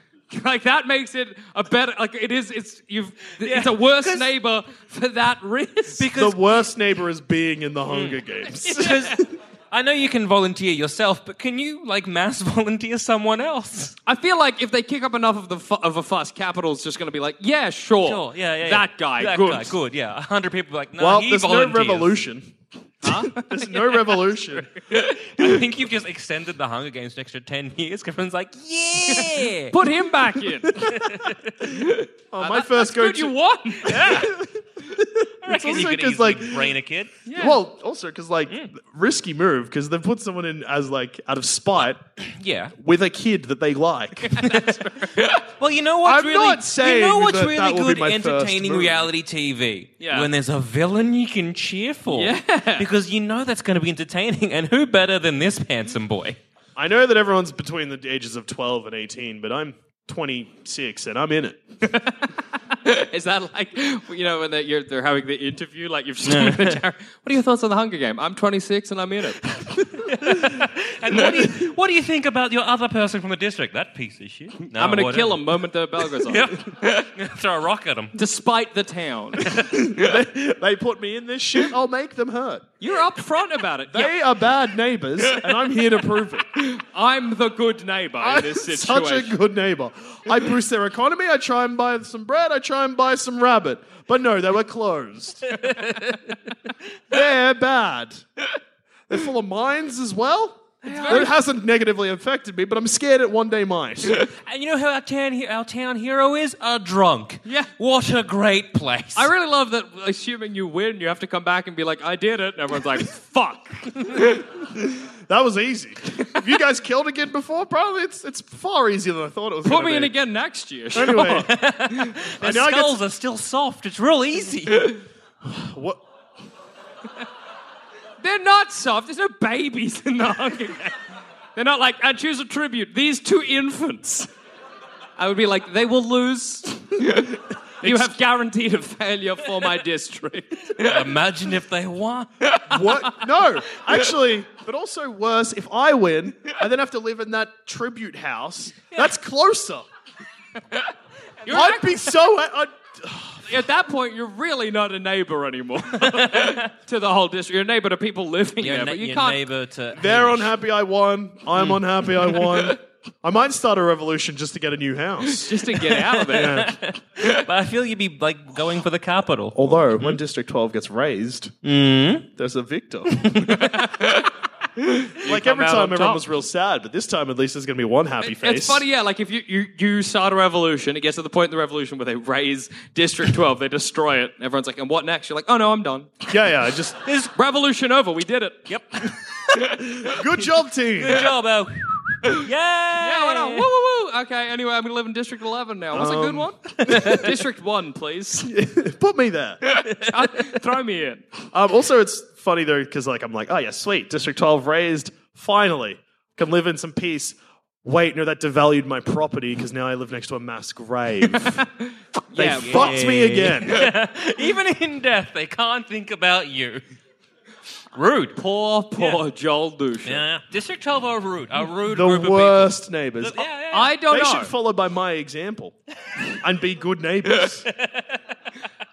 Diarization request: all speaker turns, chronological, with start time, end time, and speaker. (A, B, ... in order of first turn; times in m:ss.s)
0:00.3-0:06.1 A
0:03.4-0:04.3 B
0:06.0-0:06.4 B
0:06.1-0:09.2 C
0:07.9-0:09.2 B
0:09.7-0:14.0 B
0:14.0-0:19.7 A
0:18.0-0:22.2 B
0:21.0-0:22.5 C
0:23.0-0:23.5 A
0:23.0-0:24.7 C
0:24.9-0:29.9 B
0:29.1-0:30.8 A
0:30.8-0:31.9 B
0:32.3-0:33.3 C
0:32.4-0:34.3 A
0:33.8-0:34.3 B
0:33.9-0:36.8 C
0:35.4-0:37.2 B
0:37.2-0:37.6 A
0:37.4-0:42.0 C
0:42.3-0:42.7 B
0:42.8-0:44.4 C
0:44.3-0:45.3 A
0:44.4-0:56.4 B
0:46.0-0:49.1 C
0:50.0-0:50.3 A
0:52.1-0:52.9 A
0:56.8-1:01.6 C
1:01.8-1:09.4 A
1:06.2-1:06.8 B
1:09.7-1:15.6 B
1:14.6-1:16.7 A
1:16.1-1:18.1 B
1:18.1-1:19.6 A
1:19.7-1:22.7 C
1:22.8-1:24.1 A
1:23.9-1:26.6 C
1:26.6-1:29.3 A
1:28.2-1:35.5 C
1:35.5-1:36.2 B
1:37.1-1:38.2 C
1:39.1-1:44.3 C
1:40.8-1:41.3 A
1:40.9-1:41.3 B
1:44.2-1:49.3 B
1:49.1-1:54.2 A
1:55.3-2:00.1 C
1:59.6-2:01.6 A
2:00.9-2:01.5 C
2:01.5-2:05.0 B
2:02.4-2:03.0 C
2:05.4-2:06.0 C
2:08.2-2:11.0 A
2:11.6-2:14.3 A
2:15.2-2:20.9 A
2:20.8-2:22.6 B
2:22.7-2:29.8 C
2:31.4-2:31.9 A
2:31.5-2:33.5 C
2:33.5-2:39.4 A
2:36.0-2:36.7 B
2:38.6-2:40.5 B
2:39.9-2:45.6 C
2:45.3-2:46.7 A
2:45.9-2:50.2 B
2:46.3-2:46.8 C
2:49.5-2:51.5 C
2:51.6-2:52.3 B
2:52.4-2:53.4 C
2:53.1-2:53.7 B
2:53.6-2:54.2 A
2:54.9-2:56.2 A
2:55.2-2:58.8 C
2:58.2-3:06.2 A
3:06.3-3:07.0 C
3:07.0-3:07.3 B
3:07.4-3:08.6 A
3:08.7-3:10.2 B
3:10.0-3:11.3 C
3:11.0-3:13.7 B
3:13.0-3:18.5 A
3:15.9-3:17.2 C
3:16.9-3:17.2 B
3:18.4-3:19.6 C
3:19.9-3:21.3 A
3:20.0-3:20.6 B
3:21.5-3:31.6 C
3:31.4-3:33.0 A
3:32.3-3:33.9 C
3:32.4-3:36.8 B
3:37.9-3:38.4 B
3:38.4-3:40.2 A
3:40.0-3:43.9 B
3:41.9-3:43.4 C
3:43.7-3:44.5 A
3:44.1-3:45.8 C
3:46.3-3:47.6 C